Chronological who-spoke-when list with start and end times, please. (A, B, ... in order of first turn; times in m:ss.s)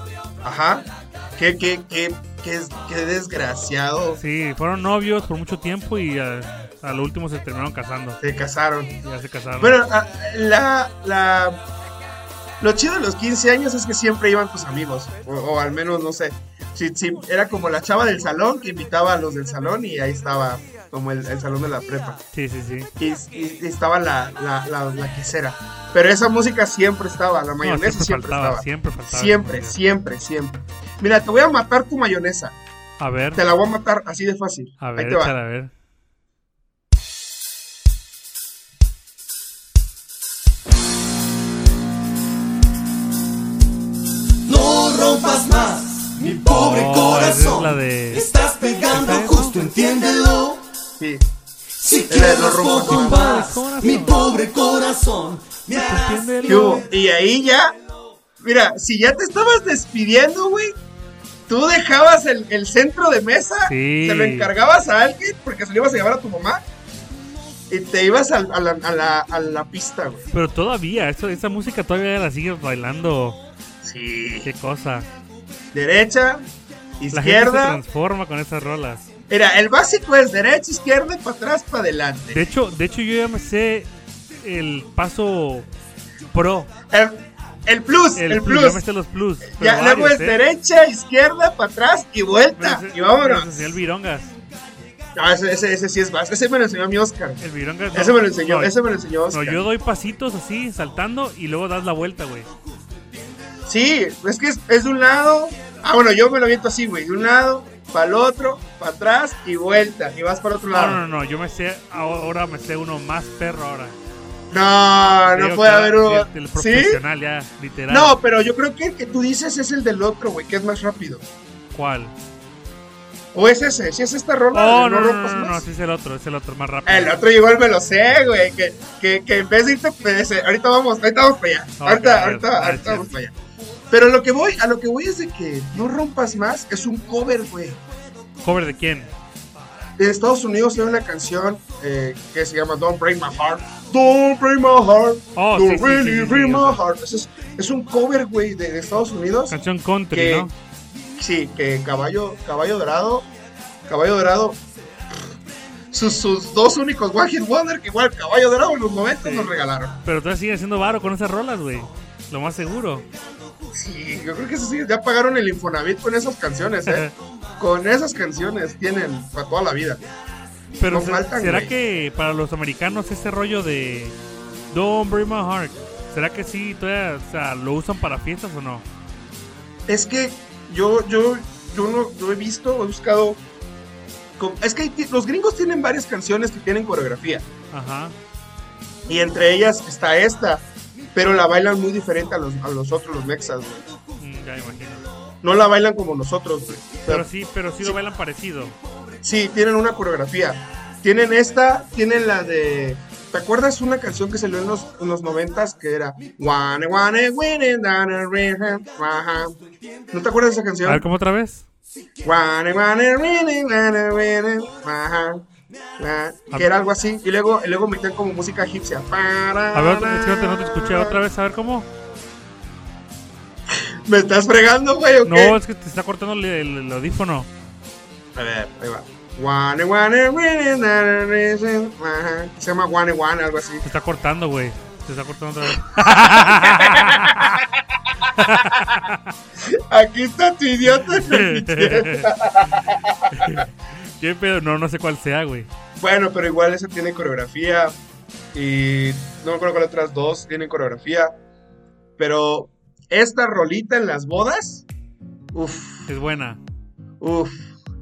0:00.4-0:04.2 A
0:04.2-0:08.2 B
0:08.2-0:09.0 A
0:09.0-0:09.8 B
0:09.6-0:11.6 A
0:12.6-0:22.2 A
0:22.3-0:22.9 B
0:23.0-0:32.6 A
0:27.6-0:29.8 B
0:33.0-0:33.4 B
0:33.4-0:35.4 A
0:34.8-0:35.7 B
0:44.5-0:50.6 C
0:46.5-0:48.3 B
0:48.8-0:49.6 B
0:51.0-0:51.3 A
0:51.8-0:56.4 C
0:52.1-0:53.5 A
0:52.8-0:54.2 B
0:55.8-0:56.9 B
0:56.4-0:57.8 A
0:58.4-1:00.8 A
1:01.5-1:06.6 A
1:03.6-1:04.5 B
1:07.7-1:10.3 A
1:10.3-1:13.4 B
1:13.8-1:14.5 A
1:14.4-1:15.1 B
1:15.7-1:16.4 A
1:17.0-1:17.8 A
1:17.1-1:19.1 B
1:19.3-1:22.4 A
1:22.3-1:25.7 B
1:26.3-1:26.7 B
1:26.9-1:28.8 A
1:28.2-1:30.4 B
1:29.5-1:33.8 A
1:32.6-1:34.3 B
1:35.2-1:39.7 A
1:37.4-1:38.7 B
1:39.3-1:42.5 B
1:43.7-1:51.0 A
1:50.7-1:54.0 B
1:54.5-1:57.0 A
1:55.3-1:58.2 B
1:57.9-2:01.3 A
2:01.7-2:02.1 B
2:03.3-2:05.6 A
2:04.5-2:07.2 B
2:06.8-2:13.4 A
2:11.8-2:13.2 B
2:13.9-2:17.8 A
2:18.4-2:19.1 B
2:20.0-2:29.6 A
2:25.4-2:26.8 B
2:29.5-2:30.5 B
2:30.1-2:30.5 A
2:31.2-2:33.3 A
2:33.9-2:34.6 A
2:35.9-2:40.0 A
2:39.2-2:39.5 B
2:40.0-2:43.1 B
2:43.7-2:47.1 A
2:46.9-2:47.1 B
2:47.6-2:50.0 A
2:50.8-2:54.2 B
2:50.9-2:51.7 A
2:54.7-2:58.8 B
2:59.9-3:03.4 A
3:04.4-3:07.5 A
3:07.7-3:08.2 B
3:09.1-3:13.8 A
3:14.2-3:15.1 B
3:15.4-3:17.3 A
3:17.1-3:18.8 B
3:19.2-3:29.6 A
3:30.1-3:31.0 A
3:30.8-3:31.7 B
3:32.2-3:35.4 A
3:36.0-3:41.2 A
3:39.7-3:41.9 B
3:43.7-3:45.6 A
3:45.2-3:47.5 B
3:48.4-3:53.8 A
3:53.8-3:57.6 B
3:55.8-3:59.0 A
3:58.3-3:59.3 B
3:59.6-4:03.6 A
4:00.9-4:02.3 B
4:03.3-4:03.7 B
4:04.2-4:05.7 B
4:06.0-4:08.0 A
4:08.5-4:11.3 A
4:12.2-4:14.9 A
4:15.5-4:16.1 A
4:16.1-4:16.6 B
4:17.2-4:17.6 A